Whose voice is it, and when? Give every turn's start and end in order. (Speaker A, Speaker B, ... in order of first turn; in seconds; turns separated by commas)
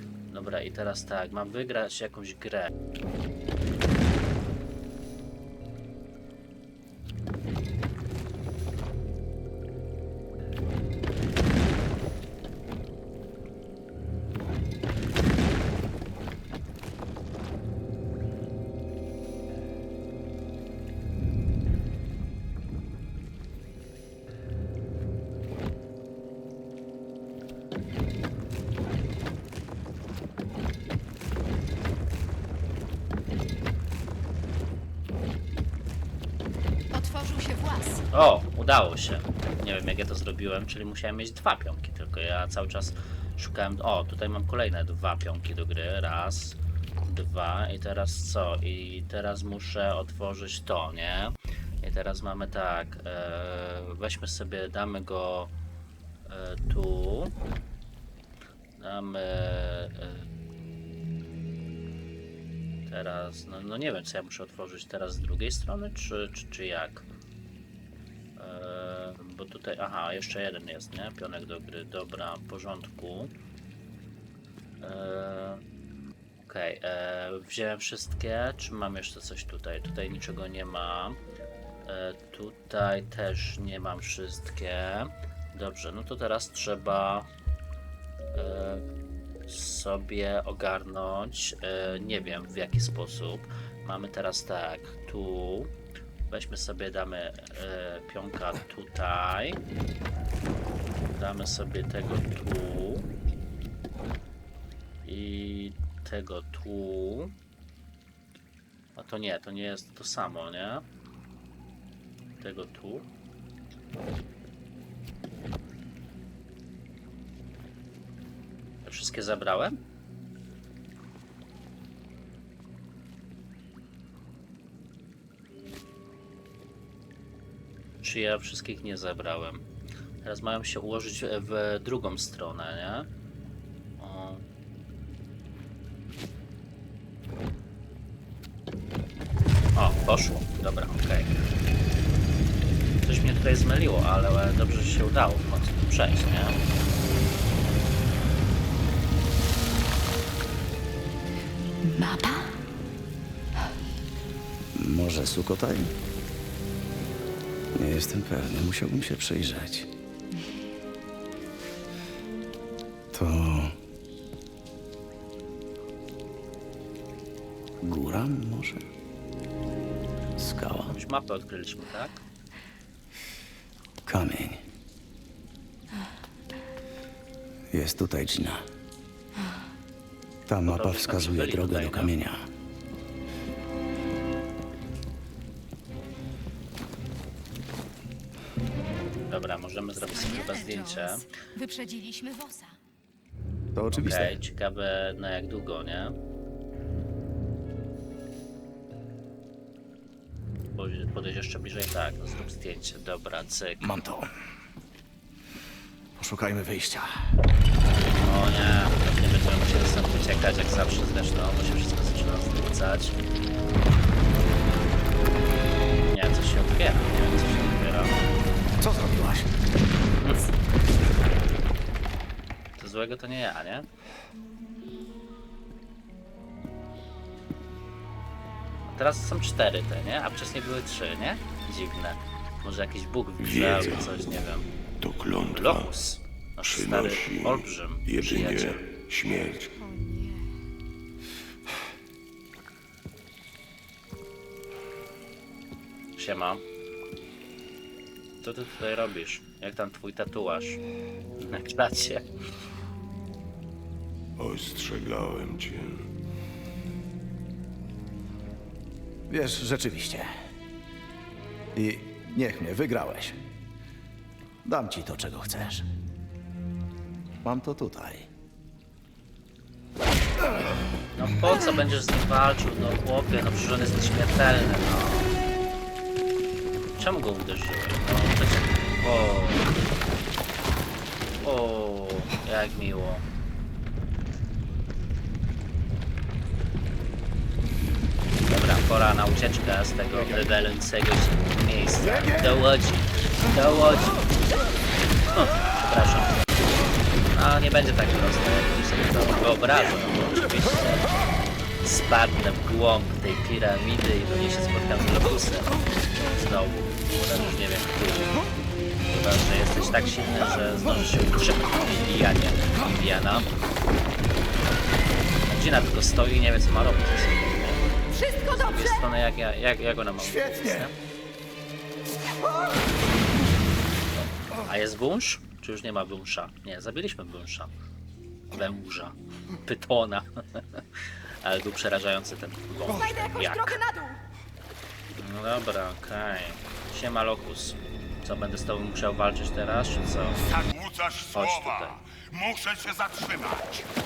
Speaker A: 0.3-2.7, Speaker B: 36.9-38.0, Speaker A: 38.1-55.5, Speaker A: 56.3-57.3, Speaker A: 58.8-60.3, Speaker A: 62.9-67.1, Speaker A: 68.4-73.3, Speaker A: 74.8-75.6, Speaker A: 76.4-81.2, Speaker A: 81.9-87.3, Speaker A: 88.3-88.8, Speaker A: 89.5-95.7, Speaker A: 96.3-99.6, Speaker A: 101.1-103.1, Speaker A: 105.0-107.3, Speaker A: 109.0-110.8, Speaker A: 112.4-113.1, Speaker A: 118.8-119.8, Speaker A: 128.0-129.6, Speaker A: 130.2-133.1, Speaker A: 134.0-134.4, Speaker A: 139.8-141.3, Speaker A: 143.0-146.6, Speaker B: 151.8-152.5, Speaker C: 154.8-155.9, Speaker C: 157.8-159.9, Speaker C: 163.1-163.8, Speaker C: 167.8-168.8, Speaker C: 170.4-171.0, Speaker A: 170.9-172.2, Speaker C: 174.1-174.6, Speaker C: 177.7-178.7, Speaker C: 180.5-182.5, Speaker A: 180.7-182.1, Speaker A: 189.3-191.3, Speaker B: 190.0-192.8, Speaker C: 193.8-194.4, Speaker A: 193.9-196.2, Speaker A: 200.8-203.8, Speaker C: 203.8-204.3, Speaker C: 206.2-207.2, Speaker A: 208.1-213.2, Speaker A: 216.1-218.2, Speaker C: 218.8-219.6, Speaker A: 220.2-220.5, Speaker A: 222.8-223.9, Speaker A: 228.9-234.7, Speaker D: 233.4-234.3, Speaker D: 235.0-235.9, Speaker A: 235.4-238.8, Speaker D: 236.7-239.8, Speaker B: 239.8-240.4, Speaker A: 246.2-246.6, Speaker A: 248.4-250.8, Speaker A: 251.5-252.2, Speaker D: 254.4-256.1, Speaker C: 259.3-260.3, Speaker C: 261.8-263.4, Speaker C: 264.6-265.9, Speaker C: 267.4-268.3, Speaker A: 271.1-275.3, Speaker A: 277.0-279.7, Speaker A: 281.4-283.2, Speaker A: 288.5-294.2, Speaker C: 292.0-292.6, Speaker A: 295.3-296.4, Speaker A: 297.3-301.1, Speaker A: 301.8-308.4, Speaker A: 309.1-313.5, Speaker A: 315.5-317.8, Speaker B: 318.1-319.1, Speaker A: 318.5-320.9, Speaker C: 320.2-320.9, Speaker A: 324.6-327.7, Speaker A: 328.5-330.8, Speaker A: 331.4-333.8, Speaker B: 332.9-334.2, Speaker A: 335.2-340.4, Speaker D: 340.3-343.9, Speaker A: 341.3-342.0